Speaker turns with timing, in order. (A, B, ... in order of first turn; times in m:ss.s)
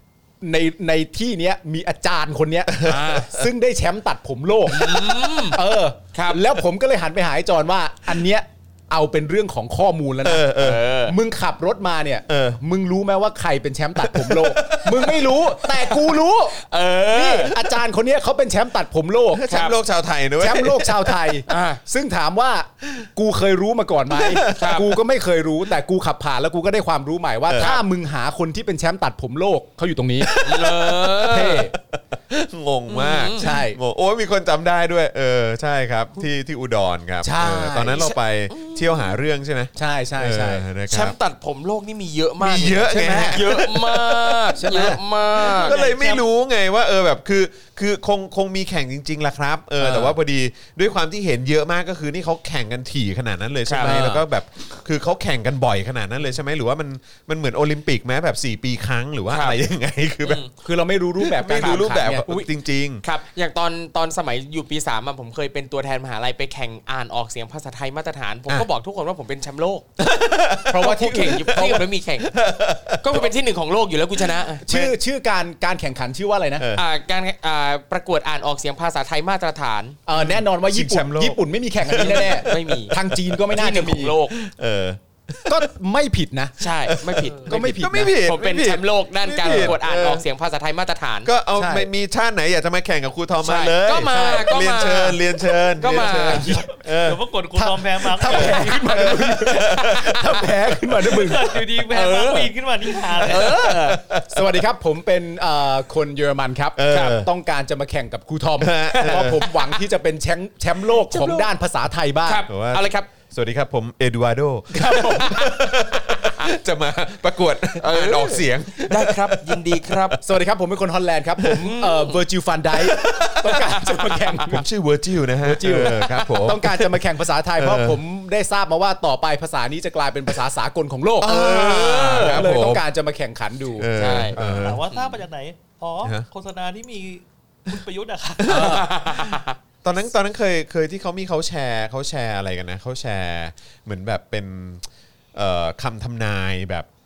0:00.4-0:19.4 A
0:02.7-0:03.4 B
0:02.8-0:03.3 C
0:04.7-0:05.6 C
0:06.1-0:06.4 C
0:10.2-0:10.8 B
0:10.6-0:11.2 C
0:12.3-0:12.6 B
0:14.0-0:15.2 B
0:16.6-0:17.6 C
0:19.3-0:21.3 B
0:19.5-0:19.8 C
0:20.4-0:30.3 A
0:21.5-0:21.8 C
0:24.1-0:24.8 B
0:24.6-0:25.0 C
0:27.5-0:27.7 B
0:30.2-0:41.1 B
0:30.4-0:31.7 C
0:31.2-0:31.7 A
0:32.9-0:33.6 C
0:33.4-0:33.8 A
0:37.2-0:38.1 A
0:38.0-0:39.2 C
0:39.8-0:40.6 A
0:40.9-0:45.8 C
0:42.4-1:00.4 B
0:42.9-0:43.5 A
0:44.6-0:45.0 A
0:45.5-0:46.2 D
0:49.8-0:50.1 A
0:53.7-0:54.2 C
0:53.8-0:54.2 A
0:59.3-0:59.6 C
1:00.2-1:00.5 C
1:00.6-1:02.4 A
1:01.2-1:03.0 B
1:01.6-1:02.5 C
1:03.0-1:09.9 C
1:10.0-1:11.0 B
1:10.7-1:11.9 A
1:10.8-1:12.4 C
1:12.2-1:13.3 B
1:13.0-1:14.9 C
1:14.6-1:16.6 A
1:16.6-1:16.8 B
1:16.8-1:20.0 C
1:20.1-1:24.2 A
1:20.1-1:23.4 B
1:21.9-1:23.0 C
1:23.5-1:24.3 C
1:24.3-1:25.7 B
1:25.5-1:26.6 A
1:26.6-1:31.3 C
1:26.9-1:30.2 B
1:27.4-1:28.2 A
1:29.5-1:29.8 A
1:31.2-1:37.2 B
1:31.6-1:31.9 A
1:33.4-1:36.6 C
1:34.1-1:34.5 A
1:35.8-1:36.7 A
1:36.6-1:39.3 D
1:37.5-1:41.9 A
1:38.3-1:40.8 B
1:41.0-1:43.6 D
1:41.9-1:44.0 C
1:43.3-1:44.6 B
1:44.1-1:52.5 A
1:46.8-1:47.3 B
1:46.9-1:47.2 C
1:48.6-1:49.5 B
1:48.9-1:49.8 C
1:50.9-1:51.5 C
1:52.2-1:53.1 C
1:52.5-2:00.2 B
1:54.7-1:55.6 A
1:56.1-1:56.4 C
1:57.8-2:00.2 C
2:00.2-2:04.6 A
2:01.6-2:02.2 C
2:02.8-2:03.8 B
2:04.5-2:07.0 B
2:05.4-2:14.6 A
2:07.6-2:08.0 B
2:11.2-2:12.8 B
2:11.2-2:12.4 C
2:13.8-2:14.9 B
2:14.0-2:15.2 C
2:14.4-2:18.9 D
2:18.4-2:26.9 B
2:18.5-2:18.9 A
2:18.5-2:19.6 C